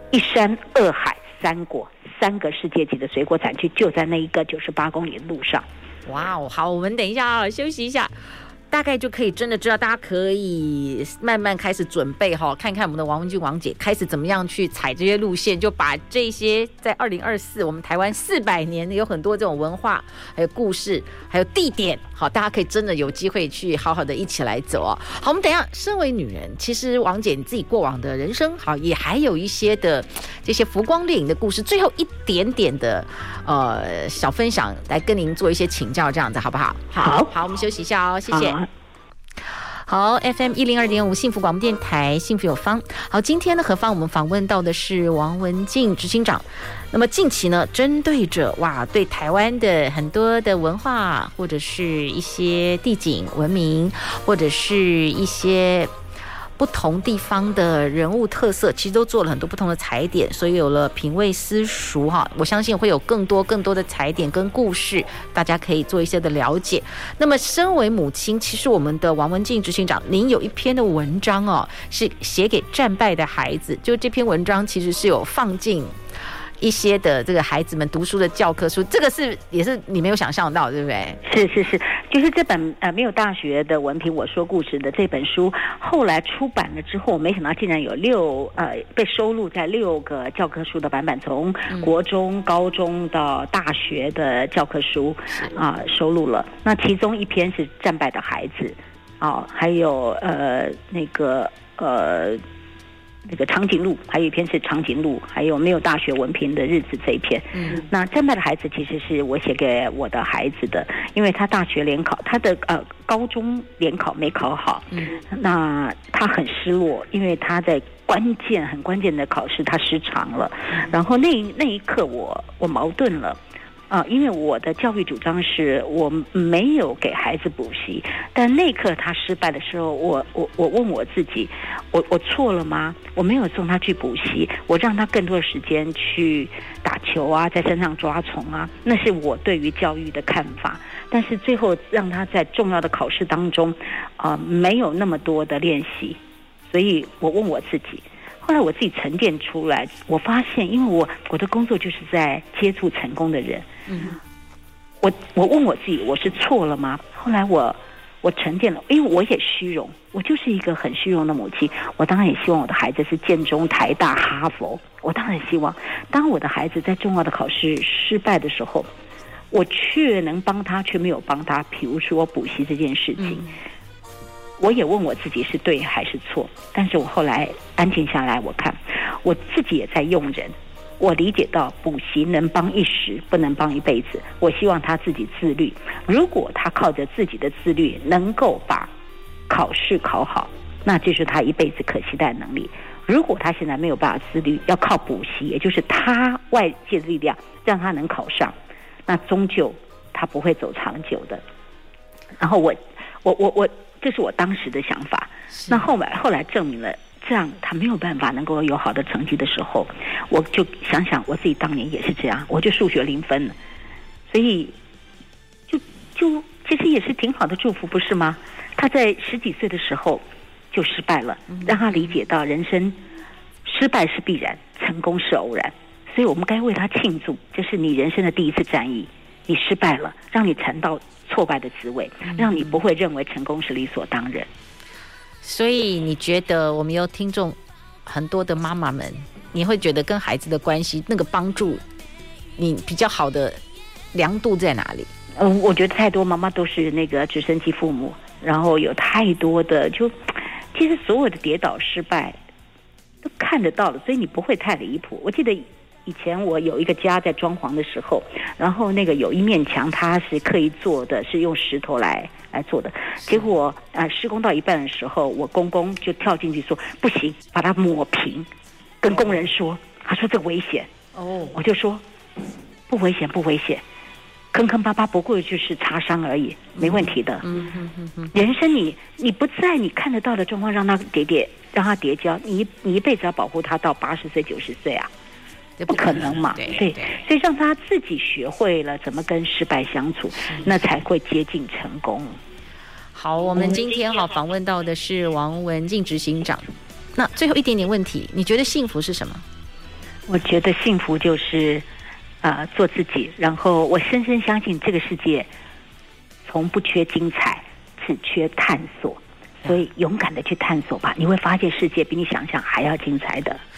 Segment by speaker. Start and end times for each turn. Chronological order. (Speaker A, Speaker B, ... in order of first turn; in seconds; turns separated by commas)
Speaker A: 0.1-5.7, Speaker B: 6.1-8.1, Speaker B: 8.7-38.6, Speaker A: 37.0-37.3, Speaker A: 38.3-38.7, Speaker B: 39.9-55.9, Speaker B: 56.6-75.9, Speaker B: 76.6-81.2, Speaker A: 81.2-102.4, Speaker A: 103.3-153.7, Speaker B: 107.5-107.9, Speaker B: 114.9-115.2, Speaker B: 153.9-154.2, Speaker A: 155.0-168.9, Speaker A: 169.5-173.5, Speaker B: 173.2-173.5, Speaker A: 174.6-188.9, Speaker A: 189.5-198.5, Speaker A: 199.1-201.4, Speaker A: 202.4-213.6, Speaker B: 205.5-205.9, Speaker A: 214.3-214.8, Speaker A: 215.7-223.0, Speaker B: 221.5-222.1, Speaker A: 223.7-234.5, Speaker B: 232.3-232.8, Speaker B: 235.4-241.8, Speaker B: 242.6-243.6, Speaker B: 244.1-245.1, Speaker A: 245.4-252.4, Speaker A: 253.2-268.5, Speaker B: 263.2-263.5, Speaker A: 269.0-270.9, Speaker B: 271.1-271.6, Speaker A: 271.5-272.0, Speaker A: 272.9-273.8, Speaker A: 274.5-277.4, Speaker B: 276.8-278.3, Speaker A: 278.3-285.1, Speaker B: 285.8-287.1, Speaker A: 285.9-292.3, Speaker B: 290.4-290.7, Speaker B: 293.1-299.4, Speaker A: 300.3-301.9, Speaker A: 302.4-305.5, Speaker A: 306.5-313.6